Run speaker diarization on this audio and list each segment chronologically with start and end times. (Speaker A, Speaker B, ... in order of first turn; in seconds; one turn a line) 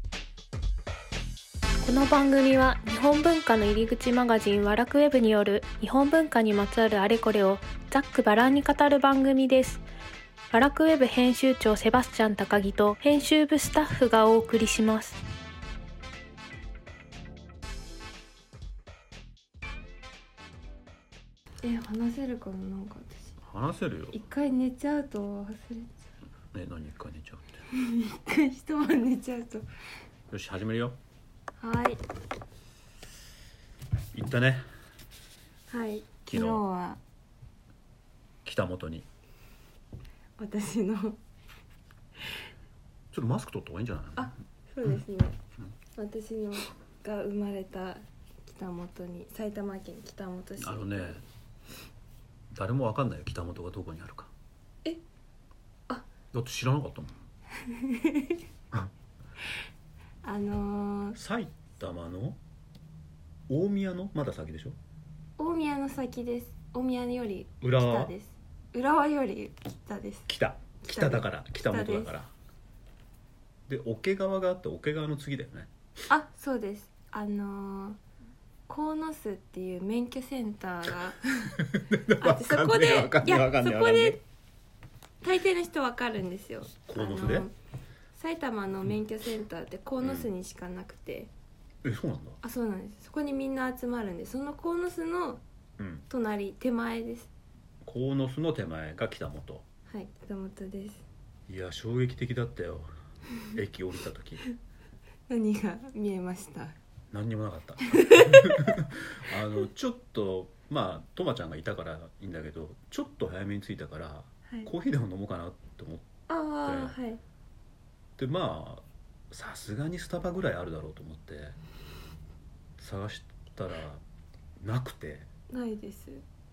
Speaker A: 1.8-9.8
Speaker A: 10.5-15.2
Speaker B: 21.6-23.4
Speaker C: 23.4-24.2
Speaker B: 24.1-26.1
Speaker C: 26.5-27.6
Speaker B: 27.7-29.7
Speaker C: 30.3-31.0
Speaker B: 31.6-32.0
Speaker C: 34.1-34.6
Speaker B: 35.7-37.0
Speaker C: 36.3-36.6
Speaker C: 38.4-39.0
Speaker B: 40.4-41.2
Speaker C: 43.1-44.3
Speaker B: 44.1-45.4
Speaker B: 45.9-51.2
Speaker C: 50.6-51.2
Speaker C: 52.5-54.3
Speaker C: 56.3-57.2
Speaker B: 57.6-58.4
Speaker B: 60.2-61.2
Speaker C: 61.1-62.4
Speaker C: 63.5-64.8
Speaker B: 65.4-70.3
Speaker C: 67.6-68.1
Speaker C: 70.3-72.3
Speaker B: 70.8-72.2
Speaker C: 73.7-75.7
Speaker B: 76.1-78.0
Speaker B: 78.7-84.2
Speaker C: 81.5-84.2
Speaker B: 85.2-87.5
Speaker C: 86.8-87.5
Speaker B: 88.1-91.3
Speaker C: 90.0-90.3
Speaker C: 91.8-92.4
Speaker B: 92.4-95.4
Speaker C: 95.8-96.0
Speaker B: 96.1-97.3
Speaker C: 97.8-99.6
Speaker B: 99.9-101.0
Speaker C: 101.5-102.9
Speaker C: 103.5-104.4
Speaker B: 105.3-106.8
Speaker C: 107.1-116.1
Speaker B: 107.8-108.8
Speaker B: 116.3-117.2
Speaker C: 116.6-116.9
Speaker C: 118.2-121.6
Speaker C: 122.8-124.0
Speaker C: 124.6-125.3
Speaker B: 125.5-126.2